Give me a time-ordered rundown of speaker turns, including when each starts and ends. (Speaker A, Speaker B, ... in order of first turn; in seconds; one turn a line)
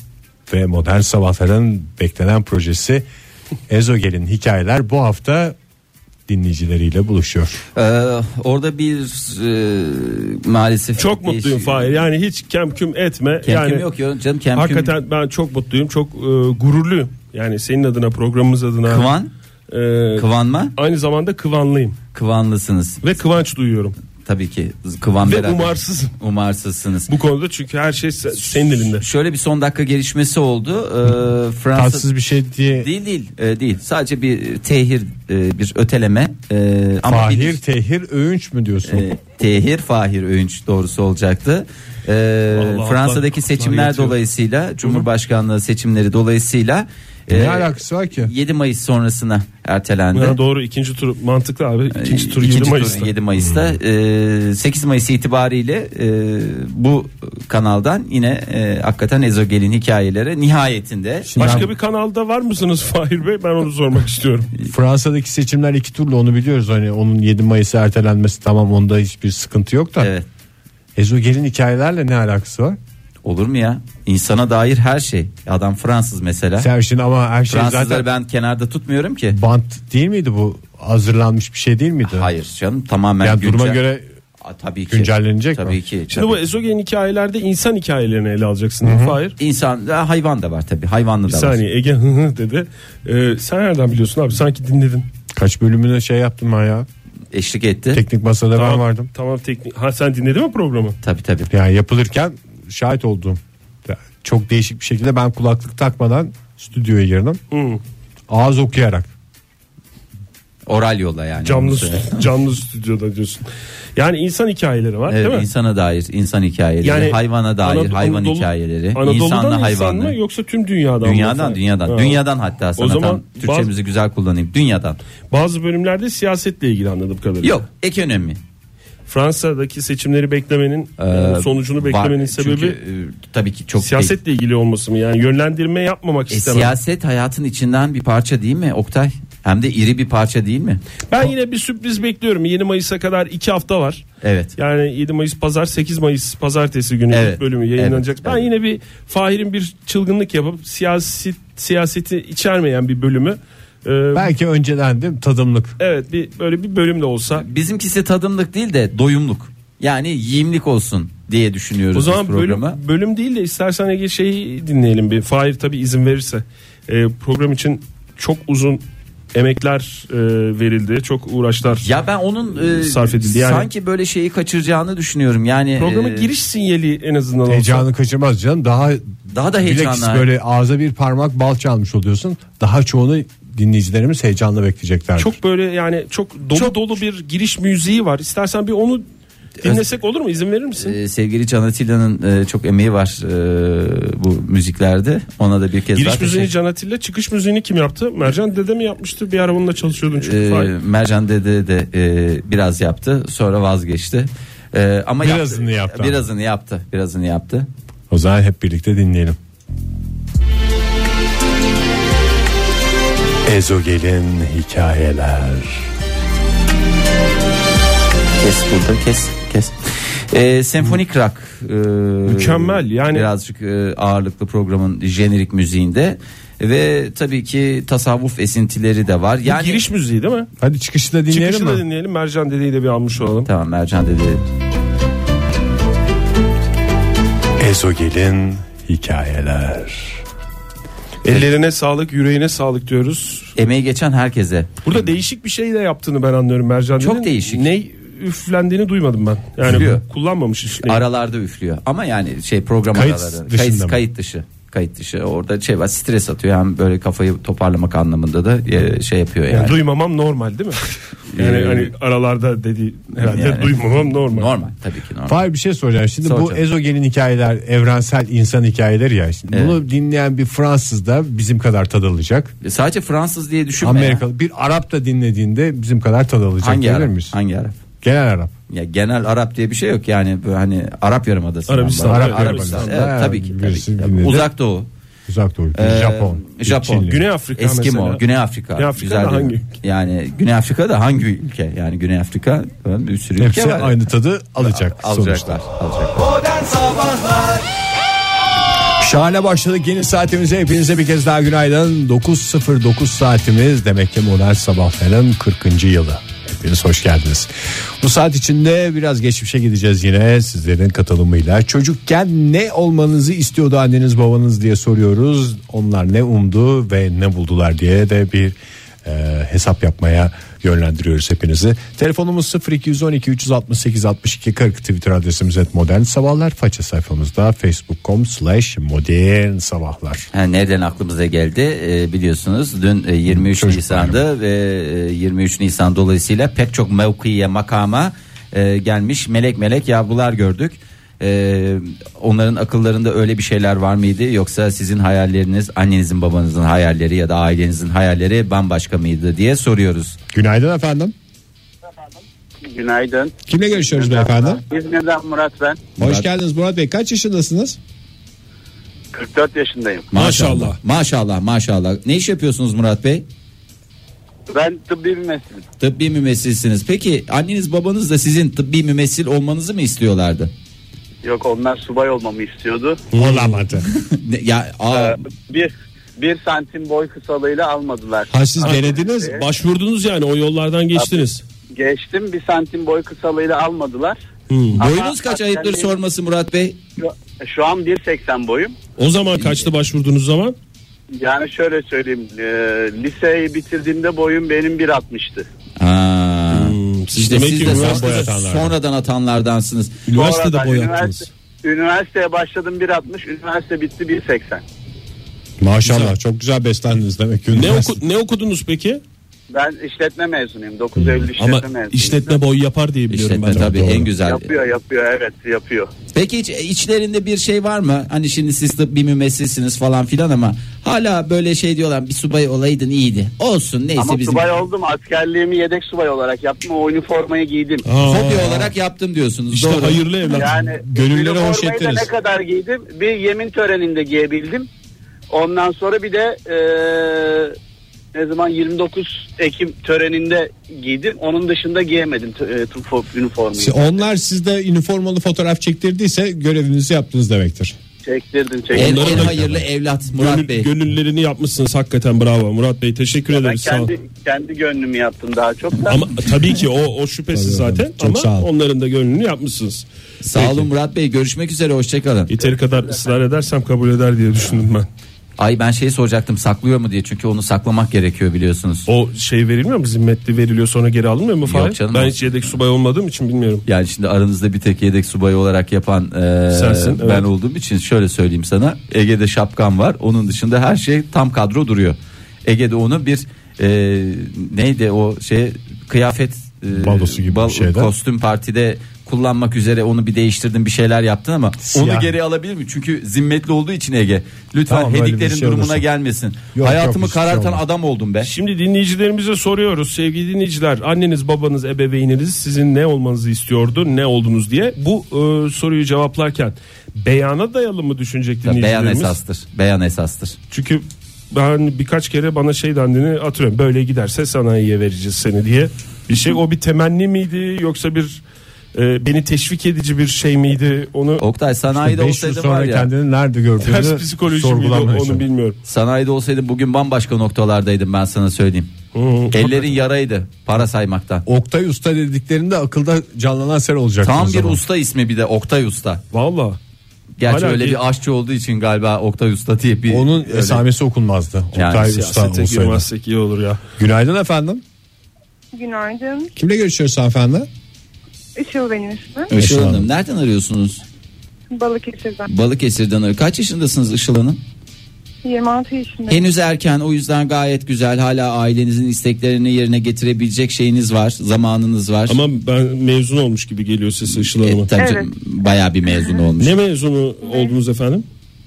Speaker A: 0.5-3.0
Speaker A: 3.7-5.6
Speaker A: 6.3-7.6
Speaker B: 7.8-12.0
Speaker C: 11.0-13.9
Speaker B: 13.4-14.9
Speaker C: 14.5-19.1
Speaker B: 18.9-19.3
Speaker C: 19.7-22.0
Speaker B: 20.2-20.7
Speaker B: 22.1-23.0
Speaker C: 23.0-24.0
Speaker B: 24.3-27.1
Speaker C: 25.2-26.1
Speaker C: 27.1-29.0
Speaker B: 28.6-32.1
Speaker A: 31.8-32.9
Speaker B: 32.8-37.6
Speaker A: 37.0-39.1
Speaker B: 38.9-50.4
Speaker C: 42.5-44.2
Speaker A: 47.3-48.3
Speaker C: 50.1-53.1
Speaker B: 51.9-61.7
Speaker A: 53.5-53.7
Speaker A: 61.3-61.7
Speaker C: 61.4-64.5
Speaker A: 64.7-70.1
Speaker B: 70.0-70.3
Speaker A: 71.0-72.8
Speaker B: 73.2-76.7
Speaker A: 76.6-78.1
Speaker B: 77.5-79.4
Speaker A: 79.3-82.3
Speaker B: 82.0-83.8
Speaker A: 83.2-84.1
Speaker B: 84.4-86.4
Speaker A: 84.9-85.8
Speaker C: 86.1-89.3
Speaker A: 88.8-89.2
Speaker B: 89.4-91.6
Speaker C: 91.3-95.1
Speaker A: 95.3-96.9
Speaker B: 97.3-98.0
Speaker A: 97.9-99.1
Speaker C: 98.6-101.0
Speaker B: 101.0-101.5
Speaker A: 101.5-107.4
Speaker C: 107.5-107.8
Speaker A: 108.3-109.1
Speaker B: 110.7-112.2
Speaker C: 111.4-115.5
Speaker B: 115.1-120.2
Speaker C: 116.8-122.2
Speaker B: 121.0-125.0
Speaker C: 122.8-123.7
Speaker C: 125.3-127.6
Speaker B: 127.4-128.4
Speaker C: 129.1-132.8
Speaker B: 131.0-134.2
Speaker C: 133.8-136.7
Speaker B: 136.3-140.8
Speaker C: 141.1-144.0
Speaker B: 144.2-144.6
Speaker C: 144.6-154.3
Speaker B: 147.1-148.5
Speaker A: 154.1-155.8
Speaker C: 155.8-157.4
Speaker B: 157.3-162.8
Speaker C: 161.9-168.8
Speaker C: 169.3-171.9
Speaker B: 171.8-176.3
Speaker C: 172.6-173.7
Speaker C: 175.8-177.8
Speaker A: 177.5-185.4
Speaker B: 179.3-180.3
Speaker C: 185.2-189.1
Speaker C: 189.6-191.0
Speaker B: 190.8-196.5
Speaker C: 195.9-200.7
Speaker B: 200.2-207.7
Speaker A: 205.2-206.2
Speaker A: 208.1-209.4
Speaker A: 213.4-215.9
Speaker B: 218.4-219.8
Speaker B: 220.3-229.8
Speaker C: 222.3-223.3
Speaker C: 229.4-230.5
Speaker A: 230.6-231.8
Speaker C: 231.3-233.5
Speaker B: 233.5-234.4
Speaker A: 237.6-240.2
Speaker C: 241.2-243.5
Speaker B: 243.6-245.1
Speaker C: 244.8-251.0
Speaker B: 247.0-247.7
Speaker B: 249.6-250.0
Speaker B: 250.8-259.8
Speaker A: 252.9-254.0
Speaker C: 259.5-260.9
Speaker B: 261.4-261.9
Speaker C: 261.4-264.5
Speaker B: 263.2-265.4
Speaker A: 265.3-272.5
Speaker B: 266.2-266.6
Speaker B: 269.5-269.8
Speaker B: 272.6-274.2
Speaker A: 273.8-277.4
Speaker B: 276.6-277.8
Speaker A: 278.0-278.5
Speaker B: 278.7-284.9
Speaker C: 281.7-283.1
Speaker A: 282.0-284.5
Speaker A: 285.3-287.2
Speaker B: 285.8-294.0
Speaker C: 287.0-288.2
Speaker C: 288.8-289.7
Speaker A: 293.4-295.6
Speaker B: 294.6-297.1
Speaker A: 299.0-330.3
Speaker B: 330.3-350.2
Speaker A: 333.3-334.2
Speaker A: 350.3-351.1
Speaker D: 352.7-355.9
Speaker A: 353.5-354.6
Speaker A: 356.0-357.8
Speaker B: 356.0-356.3
Speaker D: 359.1-360.1
Speaker B: 360.1-363.3
Speaker C: 360.1-360.8
Speaker D: 364.5-365.6
Speaker B: 365.8-370.5
Speaker D: 371.2-373.1
Speaker C: 373.1-373.6
Speaker A: 373.2-373.9
Speaker B: 373.9-375.2
Speaker D: 374.9-379.4
Speaker A: 378.3-379.4
Speaker C: 378.6-381.4
Speaker D: 380.9-384.2
Speaker C: 384.5-384.8
Speaker D: 384.7-386.0
Speaker B: 384.8-386.8
Speaker D: 387.0-388.8
Speaker C: 389.0-390.6
Speaker B: 389.4-389.6
Speaker D: 391.2-395.5
Speaker B: 395.8-400.1
Speaker C: 396.5-398.3
Speaker A: 397.6-398.8
Speaker C: 400.1-401.3
Speaker D: 400.1-404.6
Speaker A: 405.6-408.0
Speaker C: 405.9-406.1
Speaker C: 407.5-409.0
Speaker D: 409.5-412.4
Speaker C: 411.4-413.8
Speaker B: 413.1-414.5
Speaker A: 413.5-414.1
Speaker D: 414.1-415.9
Speaker B: 416.1-424.6
Speaker D: 424.0-427.9
Speaker C: 427.8-428.7
Speaker B: 428.0-430.1
Speaker C: 429.5-430.6
Speaker D: 430.3-434.7
Speaker A: 430.4-432.1
Speaker D: 435.3-437.6
Speaker D: 438.1-444.0
Speaker A: 443.6-447.8
Speaker D: 448.1-449.3
Speaker C: 448.7-449.4
Speaker B: 448.7-450.7
Speaker A: 449.3-449.6
Speaker C: 450.1-453.9
Speaker D: 453.3-456.0
Speaker C: 455.9-459.9
Speaker A: 457.3-458.5
Speaker B: 460.2-462.3
Speaker C: 462.3-464.9
Speaker D: 462.4-463.1
Speaker B: 465.4-468.9
Speaker C: 468.9-473.7
Speaker B: 471.4-472.3
Speaker B: 473.7-498.3
Speaker C: 476.5-477.3
Speaker A: 486.7-487.9
Speaker A: 491.7-492.1
Speaker A: 494.7-495.8
Speaker A: 496.6-497.6
Speaker C: 498.2-509.2
Speaker B: 508.4-510.4
Speaker C: 510.5-518.2
Speaker C: 518.7-521.2
Speaker B: 521.2-522.9
Speaker A: 521.8-525.2
Speaker C: 523.6-525.6
Speaker B: 525.7-528.8
Speaker C: 528.9-529.8
Speaker B: 529.3-531.2
Speaker A: 531.3-534.6
Speaker B: 534.0-536.0
Speaker C: 536.1-536.6
Speaker B: 537.2-540.6
Speaker C: 537.2-537.8
Speaker A: 539.9-542.9
Speaker B: 541.5-541.9
Speaker C: 541.8-543.6
Speaker A: 543.8-544.6
Speaker E: 545.5-546.3
Speaker A: 546.4-547.5
Speaker E: 548.4-549.3
Speaker B: 549.3-550.8
Speaker A: 549.3-549.9
Speaker E: 551.5-552.3
Speaker B: 552.3-554.4
Speaker E: 555.2-556.2
Speaker B: 556.1-562.2
Speaker C: 562.1-564.7
Speaker B: 564.4-566.6
Speaker E: 564.7-566.2
Speaker C: 566.4-568.0
Speaker E: 567.2-567.5